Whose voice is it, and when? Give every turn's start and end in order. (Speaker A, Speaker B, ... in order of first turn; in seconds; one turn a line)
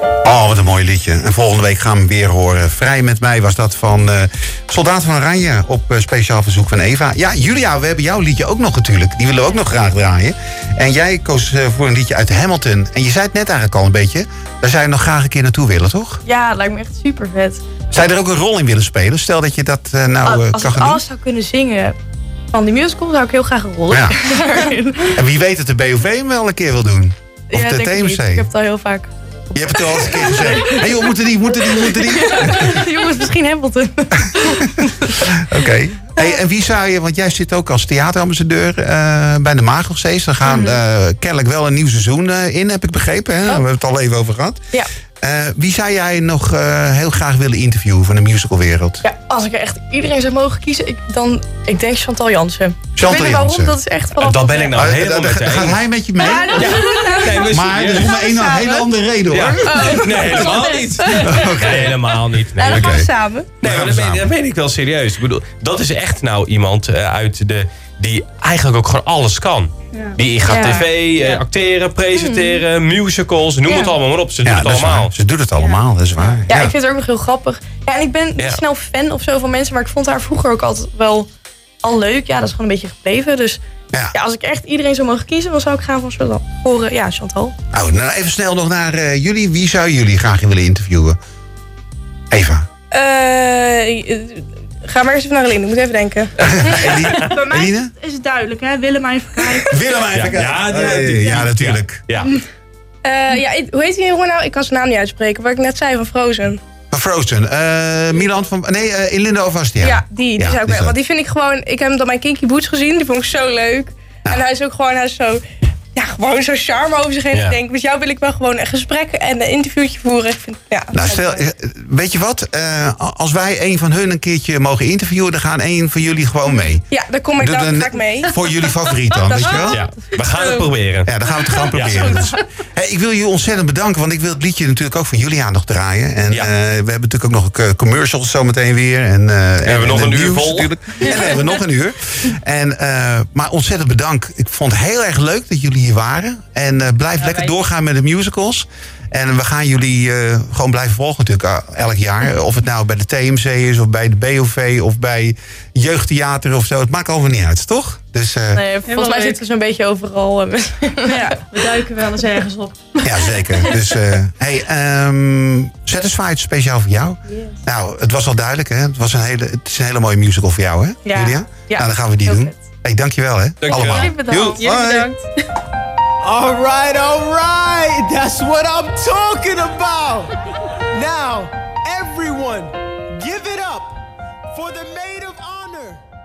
Speaker A: 0.2-16.2
Speaker B: 16.2-17.6
Speaker A: 17.9-21.0
Speaker B: 20.2-22.0
Speaker B: 22.5-25.2
Speaker A: 23.9-24.2
Speaker A: 25.1-28.5
Speaker B: 27.5-35.2
Speaker A: 29.6-32.8
Speaker A: 35.1-44.6
Speaker B: 40.4-40.8
Speaker A: 45.2-49.0
Speaker B: 49.0-54.8
Speaker A: 53.0-53.8
Speaker C: 54.2-55.8
Speaker A: 54.7-56.8
Speaker D: 56.2-57.8
Speaker B: 56.2-57.4
Speaker C: 56.4-58.3
Speaker A: 57.4-60.1
Speaker C: 59.3-63.1
Speaker B: 59.8-61.2
Speaker A: 61.1-62.0
Speaker B: 62.6-63.5
Speaker A: 62.7-63.1
Speaker C: 63.6-75.1
Speaker A: 63.6-64.3
Speaker D: 69.9-70.7
Speaker B: 70.4-71.4
Speaker B: 72.1-72.7
Speaker B: 73.7-74.0
Speaker A: 74.5-76.7
Speaker B: 76.5-81.3
Speaker B: 81.8-83.6
Speaker B: 84.1-87.6
Speaker A: 87.7-91.2
Speaker A: 92.3-92.7
Speaker E: 92.9-96.7
Speaker C: 96.4-97.4
Speaker A: 96.4-97.9
Speaker D: 97.1-99.9
Speaker A: 99.7-102.0
Speaker C: 100.1-102.3
Speaker E: 103.0-106.6
Speaker A: 106.9-111.0
Speaker E: 109.8-115.4
Speaker E: 116.0-121.4
Speaker C: 117.3-117.6
Speaker A: 120.9-126.9
Speaker E: 126.9-128.5
Speaker A: 127.4-129.8
Speaker E: 129.2-130.6
Speaker C: 129.6-131.1
Speaker A: 131.1-158.6
Speaker C: 131.7-132.3
Speaker C: 139.6-141.4
Speaker F: 147.2-147.5
Speaker B: 158.5-161.4
Speaker F: 158.9-159.4
Speaker D: 161.1-161.4
Speaker F: 161.1-163.7
Speaker A: 163.0-175.1
Speaker B: 171.1-172.6
Speaker C: 173.6-174.5
Speaker B: 173.7-174.7
Speaker F: 174.6-175.2
Speaker G: 176.2-180.3
Speaker G: 180.9-184.0
Speaker G: 184.5-186.0